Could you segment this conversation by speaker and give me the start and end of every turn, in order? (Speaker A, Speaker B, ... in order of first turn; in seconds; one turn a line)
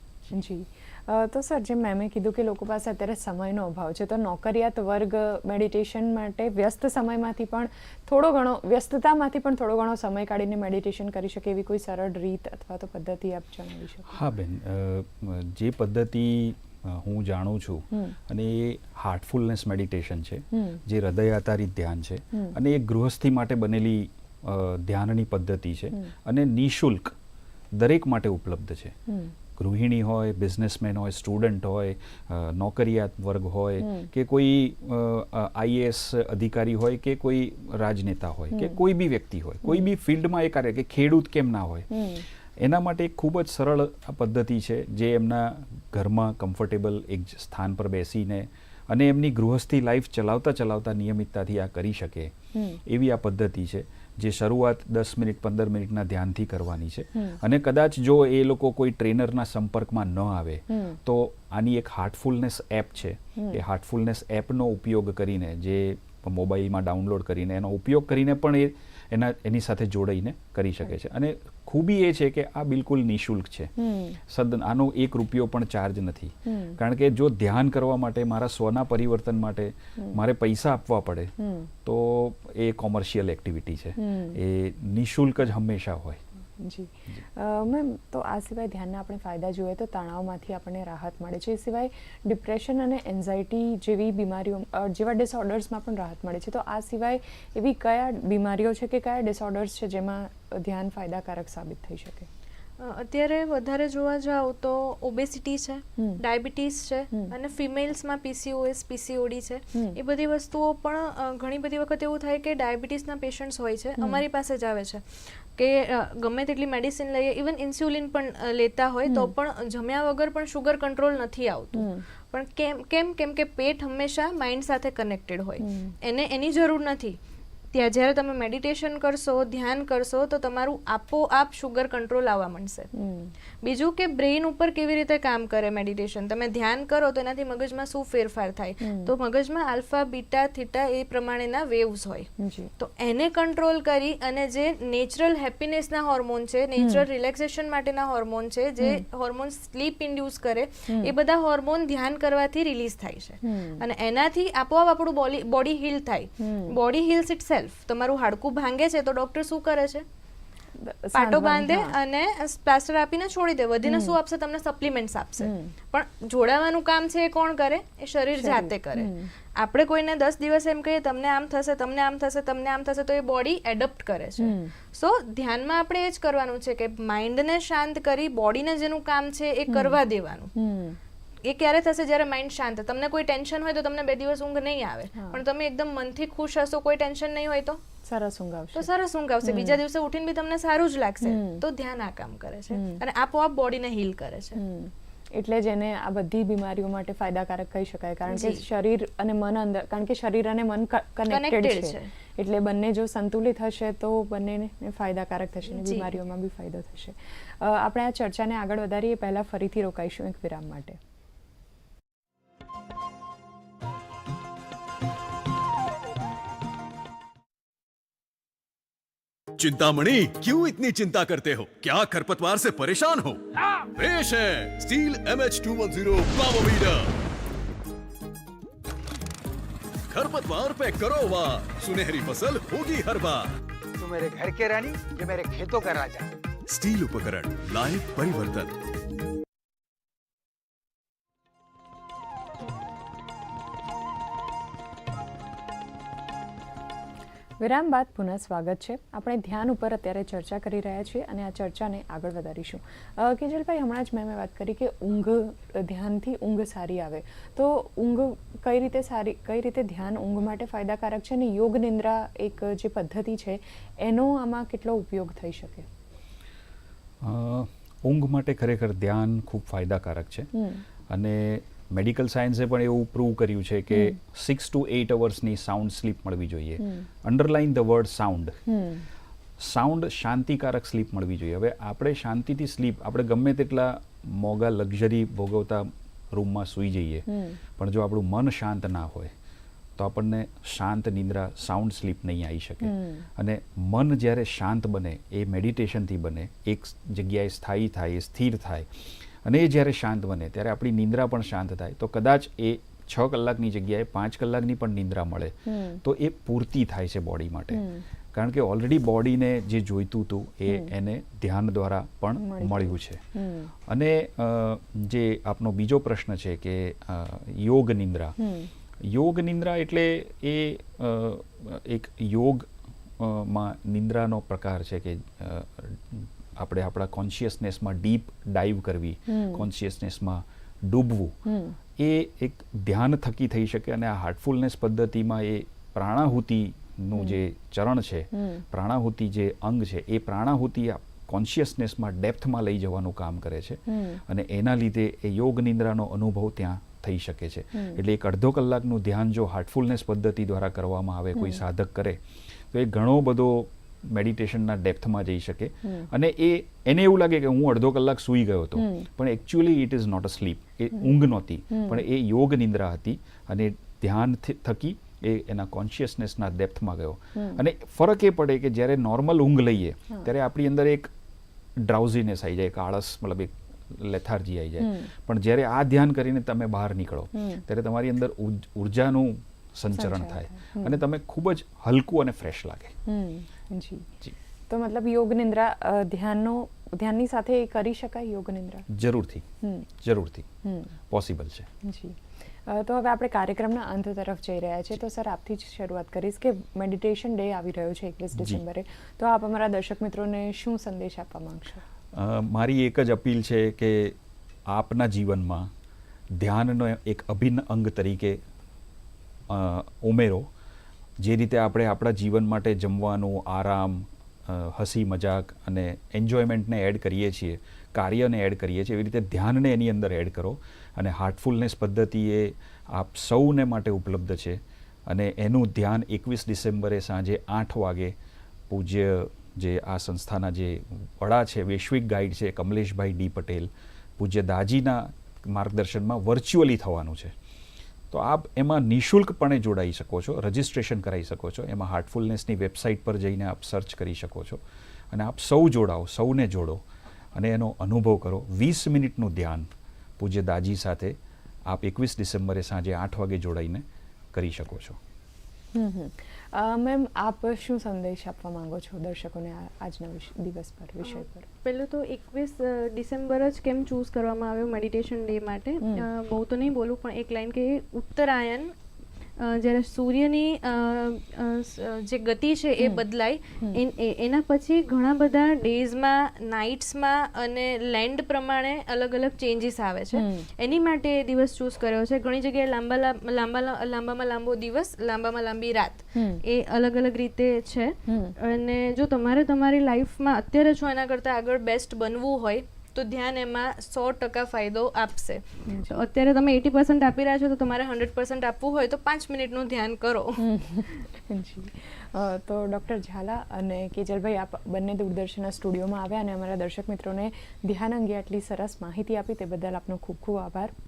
Speaker A: 0.3-14.2
Speaker B: 14.1-27.1
Speaker A: 17.9-18.2
Speaker A: 20.5-20.8
Speaker B: 27.7-28.9
Speaker A: 29.1-29.3
Speaker B: 29.6-52.3
Speaker A: 33.8-34.1
Speaker A: 38.5-38.8
Speaker A: 39.6-39.9
Speaker A: 41.9-42.2
Speaker A: 52.5-52.8
Speaker B: 52.9-73.7
Speaker A: 60.7-61.0
Speaker A: 63.4-63.6
Speaker A: 73.8-74.2
Speaker B: 74.3-86.2
Speaker A: 76.5-76.8
Speaker A: 81.4-81.7
Speaker A: 84.0-84.4
Speaker A: 86.6-102.3
Speaker C: 102.8-127.2
Speaker A: 109.7-110.0
Speaker A: 114.0-114.2
Speaker A: 119.1-119.3
Speaker A: 121.7-122.0
Speaker A: 125.6-125.9
Speaker C: 127.7-132.9
Speaker A: 132.9-133.3
Speaker C: 133.6-160.0
Speaker A: 138.8-139.1
Speaker A: 142.4-142.7
Speaker A: 146.8-147.1
Speaker A: 150.9-151.1
Speaker A: 153.4-153.8
Speaker A: 156.4-156.7
Speaker A: 160.8-161.9
Speaker C: 161.1-180.5
Speaker A: 163.8-164.2
Speaker A: 165.4-165.7
Speaker A: 168.3-169.3
Speaker A: 174.4-174.7
Speaker A: 179.7-180.0
Speaker A: 180.5-181.0
Speaker C: 181.4-187.8
Speaker A: 185.1-185.4
Speaker A: 188.0-188.9
Speaker C: 188.7-194.6
Speaker A: 189.4-189.8
Speaker A: 191.2-191.6
Speaker A: 192.7-193.0
Speaker A: 194.5-211.0
Speaker C: 198.3-198.6
Speaker C: 201.3-202.1
Speaker C: 205.7-206.1
Speaker D: 219.6-227.1
Speaker D: 230.1-233.5
Speaker E: 234.0-236.3
Speaker D: 236.7-238.8
Speaker A: 247.6-265.9
Speaker B: 267.2-270.5
Speaker A: 270.5-270.8
Speaker B: 271.1-278.6
Speaker A: 273.9-274.2
Speaker A: 276.8-277.1
Speaker A: 278.7-279.0
Speaker B: 279.6-289.3
Speaker A: 287.3-287.6
Speaker B: 290.0-313.2
Speaker A: 292.8-293.3
Speaker A: 305.7-306.0
Speaker A: 307.7-308.1
Speaker A: 312.4-313.7
Speaker B: 313.9-318.4
Speaker A: 318.4-318.7
Speaker B: 319.0-322.7
Speaker B: 323.2-331.4
Speaker A: 329.3-329.7
Speaker A: 331.4-331.8
Speaker B: 332.0-352.2
Speaker A: 338.3-338.6
Speaker A: 343.9-344.2
Speaker A: 347.7-348.0
Speaker A: 351.3-351.6
Speaker B: 352.7-371.1
Speaker A: 355.8-356.1
Speaker A: 358.8-359.1
Speaker A: 361.7-362.0
Speaker A: 367.4-367.6
Speaker B: 371.8-382.9
Speaker A: 374.8-375.1
Speaker A: 377.3-377.6
Speaker A: 379.9-381.0
Speaker A: 383.1-384.1
Speaker A: 384.7-388.9
Speaker B: 388.9-389.5
Speaker A: 389.6-389.9
Speaker B: 390.0-390.5
Speaker A: 390.6-390.9
Speaker B: 391.1-391.7
Speaker A: 391.8-401.8
Speaker B: 398.4-398.6
Speaker B: 402.1-404.2
Speaker B: 404.7-405.7
Speaker B: 406.4-408.4
Speaker B: 409.5-410.5
Speaker B: 411.2-428.1
Speaker B: 428.7-437.3
Speaker B: 438.1-446.8
Speaker B: 447.3-449.7
Speaker B: 450.2-455.0
Speaker A: 455.7-461.5
Speaker C: 461.0-468.7
Speaker A: 465.8-466.1
Speaker C: 469.4-500.5
Speaker A: 472.8-473.0
Speaker A: 480.1-480.5
Speaker A: 486.1-486.4
Speaker A: 488.1-488.3
Speaker A: 495.6-496.0
Speaker A: 500.4-510.7